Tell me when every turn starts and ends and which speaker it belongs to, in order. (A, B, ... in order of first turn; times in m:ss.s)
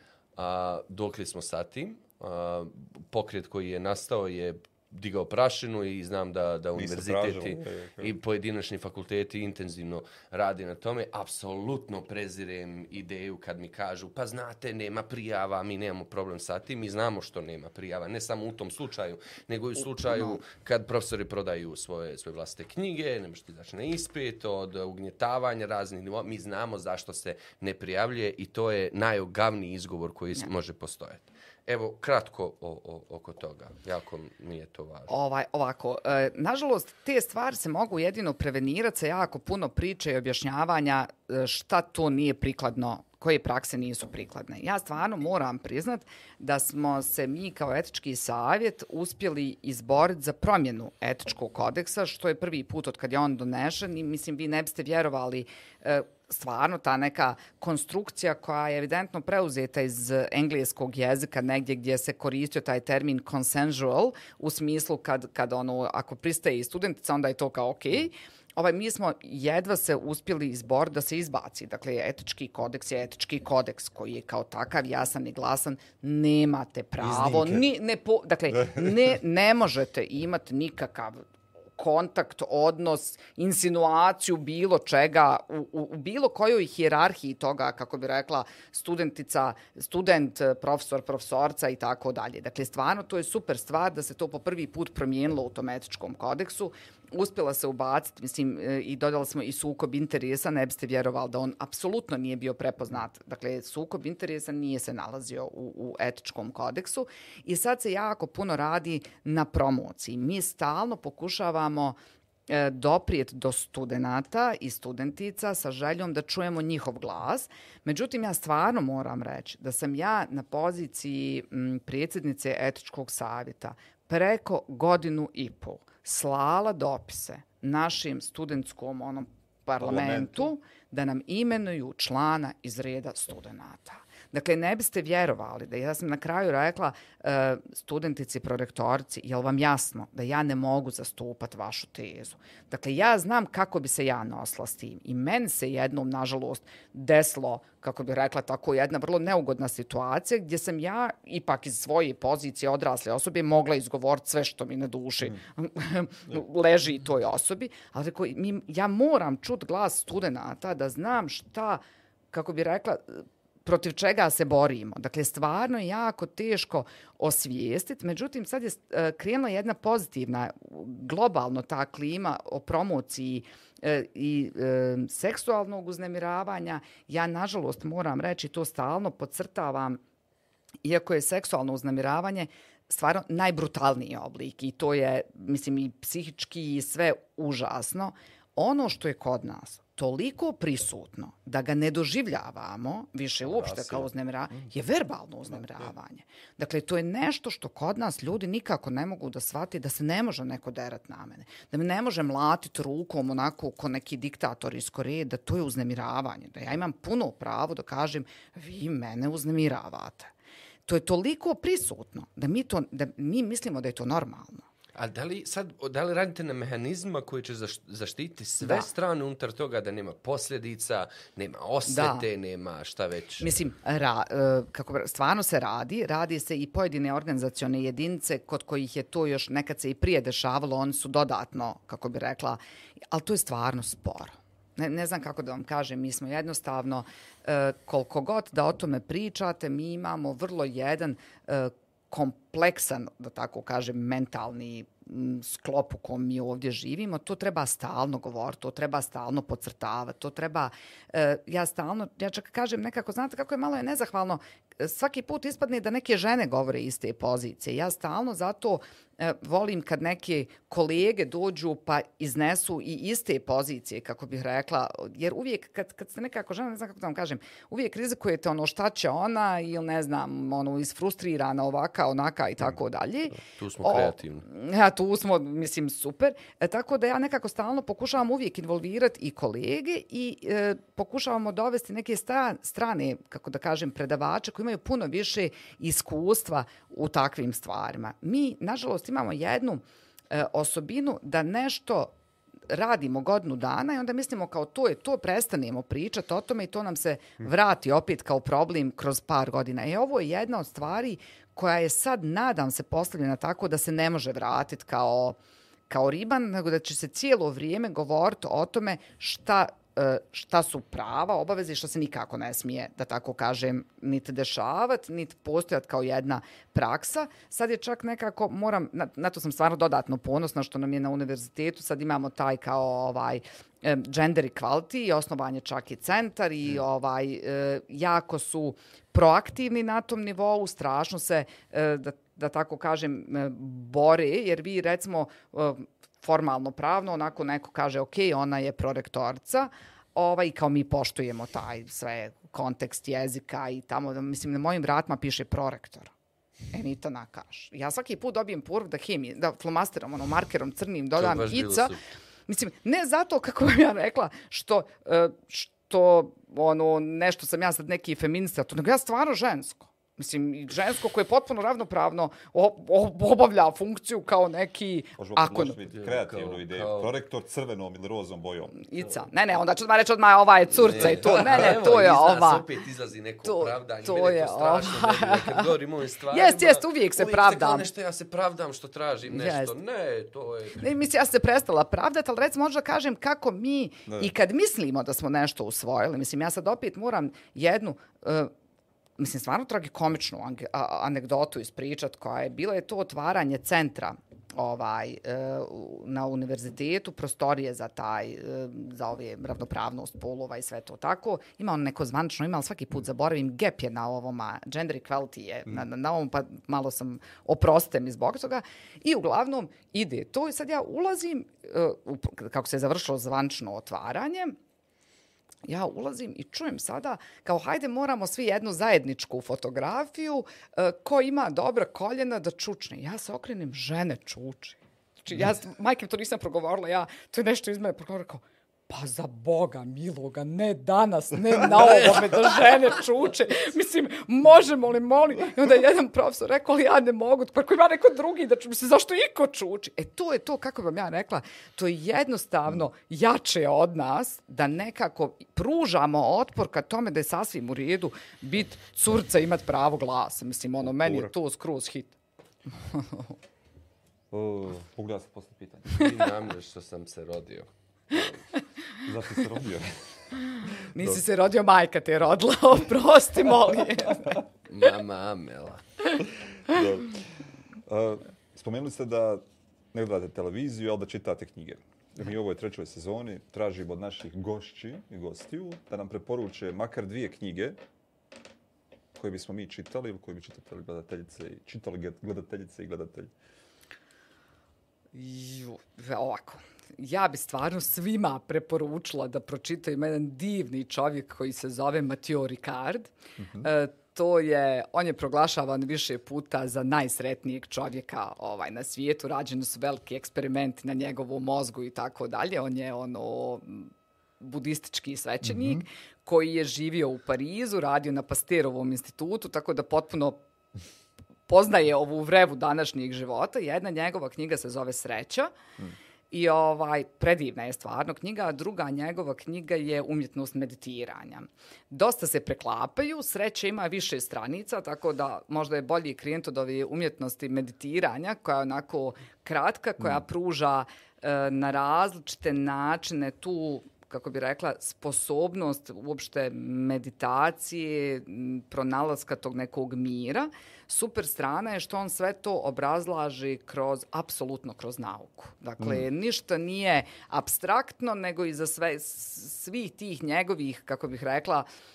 0:00.4-0:35.1 A
0:06.8-0:08.2 B
0:19.9-0:20.4 C
0:35.1-1:52.0 C
1:17.0-1:17.6 A
1:52.5-3:00.0 C
2:09.8-2:10.5 B
3:00.8-3:30.3 C
3:13.5-3:14.1 B
3:30.9-3:34.6 C
3:35.0-3:43.5 A
3:38.6-3:38.9 C
3:41.9-3:42.3 C
3:43.4-4:52.1 C
4:33.4-4:34.5 A
4:52.7-5:05.4 C
5:05.9-5:46.1 C
5:46.7-5:52.0 C
5:51.2-5:52.0 A
5:52.5-6:05.8 C
6:05.2-6:08.8 B
6:05.9-6:07.1 A
6:08.8-6:12.6 C
6:10.8-6:20.9 A
6:13.4-6:15.7 C
6:16.3-6:17.9 C
6:19.3-6:19.7 C
6:20.8-6:28.5 C
6:29.2-6:54.6 C
6:55.6-7:32.2 C
7:11.9-7:12.5 A
7:30.8-7:31.3 B
7:32.9-7:33.3 C
7:34.3-7:36.1 B
7:35.9-7:37.7 A
7:39.0-7:40.0 B
7:40.7-7:44.4 C
7:44.7-7:45.8 A
7:46.7-7:47.2 B
7:47.9-7:57.8 B
7:59.2-8:03.3 B
8:05.1-8:30.4 C
8:31.5-8:35.5 C
8:36.3-9:11.7 C